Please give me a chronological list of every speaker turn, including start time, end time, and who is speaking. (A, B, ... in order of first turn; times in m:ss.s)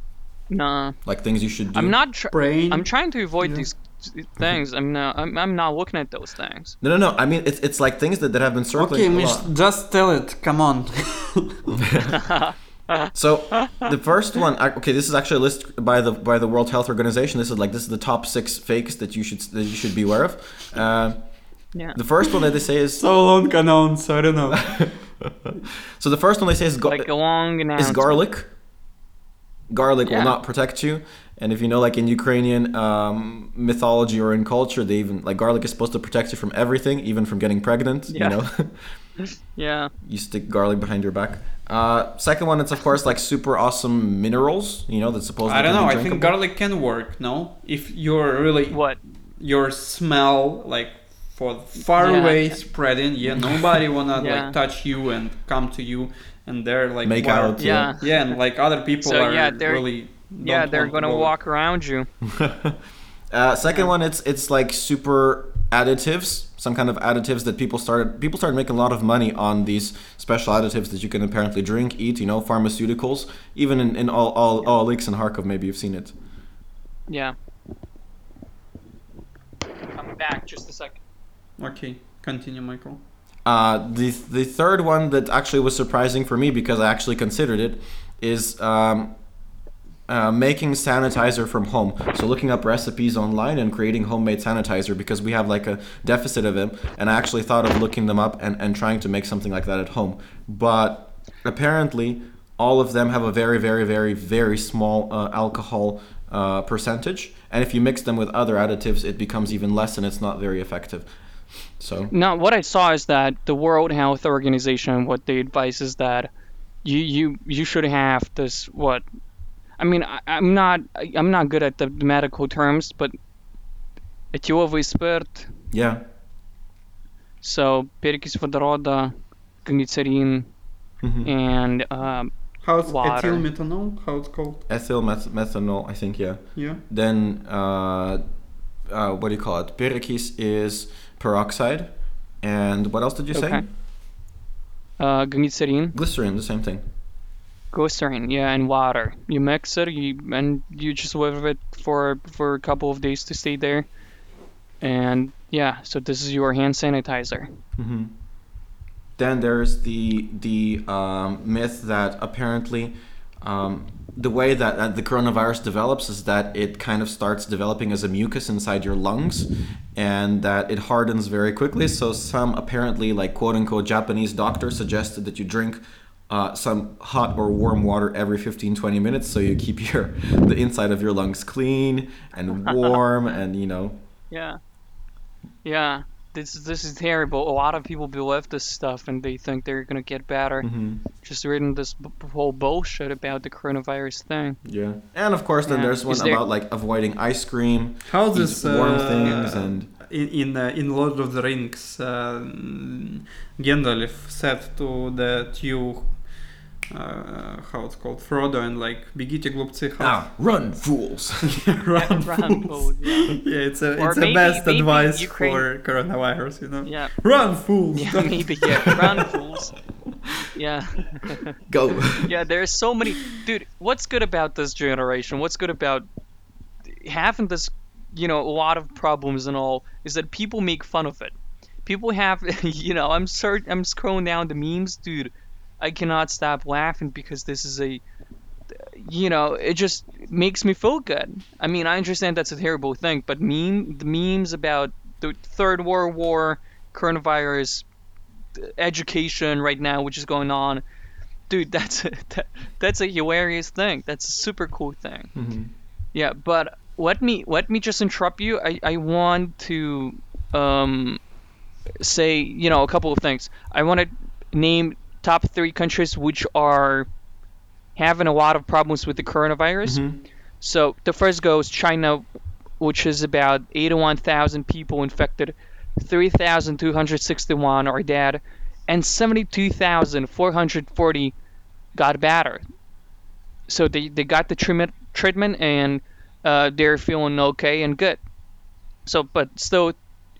0:00.5-0:01.0 A
0:01.0-0:02.0 B
0:01.7-0:06.8 A
0:02.3-0:03.6 C
0:06.8-0:09.5 B
0:08.7-0:11.6 C
0:11.7-0:12.2 B
0:12.2-0:13.1 A
0:13.1-0:23.0 B
0:23.0-0:25.2 C
0:24.6-0:28.5 B
0:26.8-0:28.2 A
0:29.7-0:39.0 B
0:30.0-0:30.4 A
0:38.1-0:38.4 A
0:39.2-0:39.9 A
0:40.0-0:46.3 B
0:45.4-1:01.3 C
0:48.7-0:49.0 A
0:52.0-0:52.6 A
0:53.2-0:53.8 B
0:54.2-0:54.5 A
0:57.0-0:57.9 B
0:57.6-0:58.4 A
0:59.0-1:02.1 A
1:02.3-1:02.8 B
1:03.3-1:16.1 B
1:17.1-1:17.3 A
1:19.8-1:21.0 A
1:21.6-1:23.0 C
1:23.4-1:29.1 B
1:30.1-1:51.1 B
1:51.8-1:52.1 B
1:52.1-1:56.3 A
1:56.8-1:59.0 A
1:59.8-2:03.1 A
2:04.3-2:05.5 A
2:05.7-2:06.0 B
2:07.4-2:10.5 A
2:11.0-2:11.3 B
2:11.2-2:12.3 A
2:12.6-2:14.6 C
2:12.8-2:13.4 A
2:14.7-2:18.2 B
2:16.6-2:16.8 C
2:18.9-2:23.7 B
2:23.3-2:23.6 A
2:25.0-2:25.9 A
2:25.9-2:26.8 B
2:27.7-2:33.9 A
2:34.8-2:37.5 A
2:37.8-2:38.1 B
2:39.2-3:04.0 B
3:04.3-3:04.6 A
3:05.6-3:14.6 A
3:10.6-3:11.0 B
3:14.6-3:19.9 B
3:15.6-3:16.4 A
3:18.0-3:26.2 C
3:26.9-3:30.3 C
3:30.0-3:31.6 B
3:31.4-3:39.0 C
3:31.9-3:33.4 A
3:34.0-3:35.6 A
3:36.8-3:37.1 A
3:37.9-3:39.8 A
3:40.5-3:41.6 A
3:41.7-3:42.3 B
3:42.2-3:46.1 A
3:46.9-3:58.0 A
3:58.8-4:07.8 A
4:08.5-4:10.8 A
4:11.5-4:15.3 A
4:15.3-4:15.7 B
4:16.1-4:21.2 A
4:22.0-4:27.1 A
4:28.0-4:30.0 A
4:29.8-4:30.2 B
4:30.6-4:32.2 A
4:32.8-4:41.3 A
4:41.9-4:42.6 A
4:43.7-4:48.2 A
4:49.0-4:50.0 A